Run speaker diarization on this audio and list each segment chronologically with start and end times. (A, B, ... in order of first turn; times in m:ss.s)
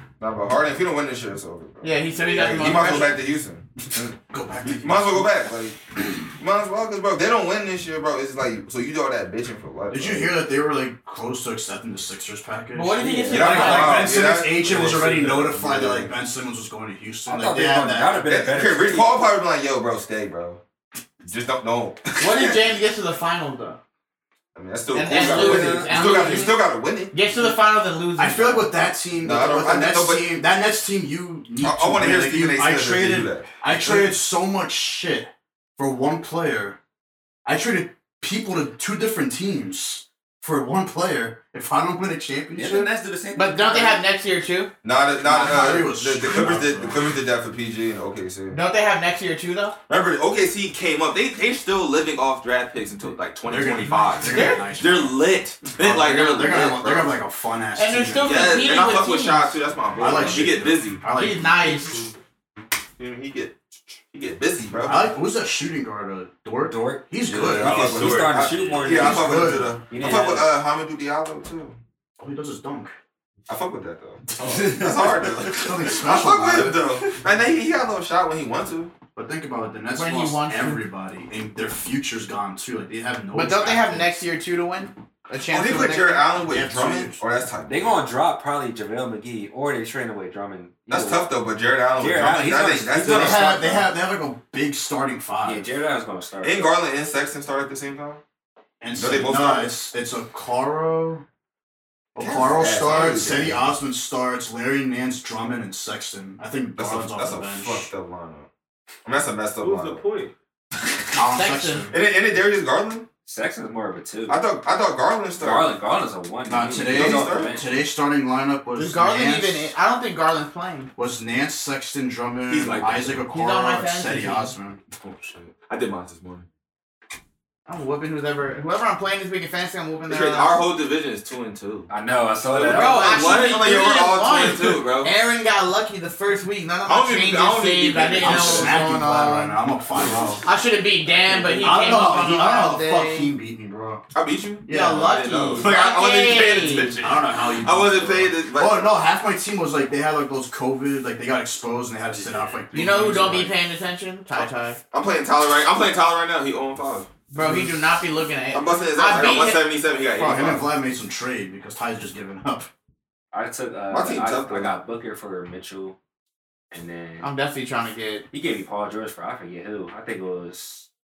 0:00.2-0:04.1 A
0:01.8-0:03.2 B
0:04.3-0:05.3 C
0:04.8-0:05.8 A
0:06.3-0:10.4 A
0:09.9-0:18.3 C
0:12.7-0:14.2 B
0:13.0-0:13.8 D
0:13.3-0:16.1 A
0:17.3-0:19.2 D
0:18.2-0:20.6 A
0:21.2-0:22.6 A
0:22.2-0:23.8 B
0:24.6-0:27.2 A
0:24.9-0:26.6 B
0:25.1-0:26.5 D
0:27.1-0:28.7 B
0:28.2-0:36.8 C
0:29.2-0:30.3 A
0:31.6-0:34.1 A
0:37.4-0:42.9 C
0:42.5-0:44.0 D
0:43.3-0:44.7 B
0:44.8-0:48.6 A
0:45.2-0:47.2 C
0:48.5-0:49.8 B
0:49.9-0:57.2 A
0:53.5-0:55.2 C
0:54.3-0:54.6 B
0:55.8-0:58.8 C
0:57.8-0:59.6 B
0:58.2-1:01.0 A
1:00.0-1:01.8 C
1:01.1-1:02.1 B
1:03.0-1:03.6 A
1:04.1-1:05.1 A
1:04.8-1:08.2 C
1:06.7-1:10.5 D
1:07.3-1:11.8 A
1:07.6-1:08.8 E
1:08.8-1:09.8 C
1:12.2-1:13.0 C
1:13.5-1:18.9 A
1:14.4-1:15.7 D
1:15.5-1:17.0 C
1:19.2-1:24.2 C
1:20.0-1:20.8 B
1:23.3-1:26.3 B
1:25.5-1:28.0 A
1:26.5-1:27.2 C
1:27.7-1:31.3 D
1:30.9-1:33.9 A
1:32.0-1:33.7 D
1:33.0-1:35.7 C
1:35.4-1:36.8 D
1:36.4-1:38.2 A
1:38.8-1:41.2 C
1:38.9-1:39.7 A
1:42.2-1:47.9 C
1:42.2-1:43.7 A
1:42.6-1:43.0 D
1:46.8-1:48.5 A
1:49.0-1:50.0 A
1:49.6-1:50.3 E
1:51.1-1:52.0 C
1:51.3-1:51.9 B
1:51.9-1:53.1 A
1:53.3-1:54.4 D
1:54.3-1:55.7 A
1:55.4-1:57.8 D
1:56.5-1:59.7 C
1:56.8-1:57.7 A
1:58.8-2:00.9 B
2:01.0-2:04.8 C
2:02.5-2:03.2 A
2:03.3-2:04.5 B
2:05.0-2:06.5 A
2:07.7-2:10.6 B
2:10.1-2:11.9 A
2:11.9-2:13.5 D
2:12.5-2:15.1 A
2:12.6-2:19.6 B
2:16.8-2:19.0 A
2:18.2-2:20.4 C
2:20.4-2:23.3 B
2:21.0-2:22.1 D
2:21.6-2:24.0 C
2:24.1-2:28.9 A
2:24.7-2:25.2 C
2:24.7-2:27.0 B
2:27.0-2:33.5 C
2:32.2-2:32.6 E
2:32.7-2:34.8 B
2:34.9-2:37.1 A
2:37.3-2:39.7 B
2:37.4-2:37.7 C
2:38.5-2:40.7 A
2:40.1-2:42.7 C
2:43.3-2:46.0 D
2:43.9-2:44.8 A
2:46.7-2:47.3 D
2:47.2-2:48.3 B
2:48.3-2:50.9 D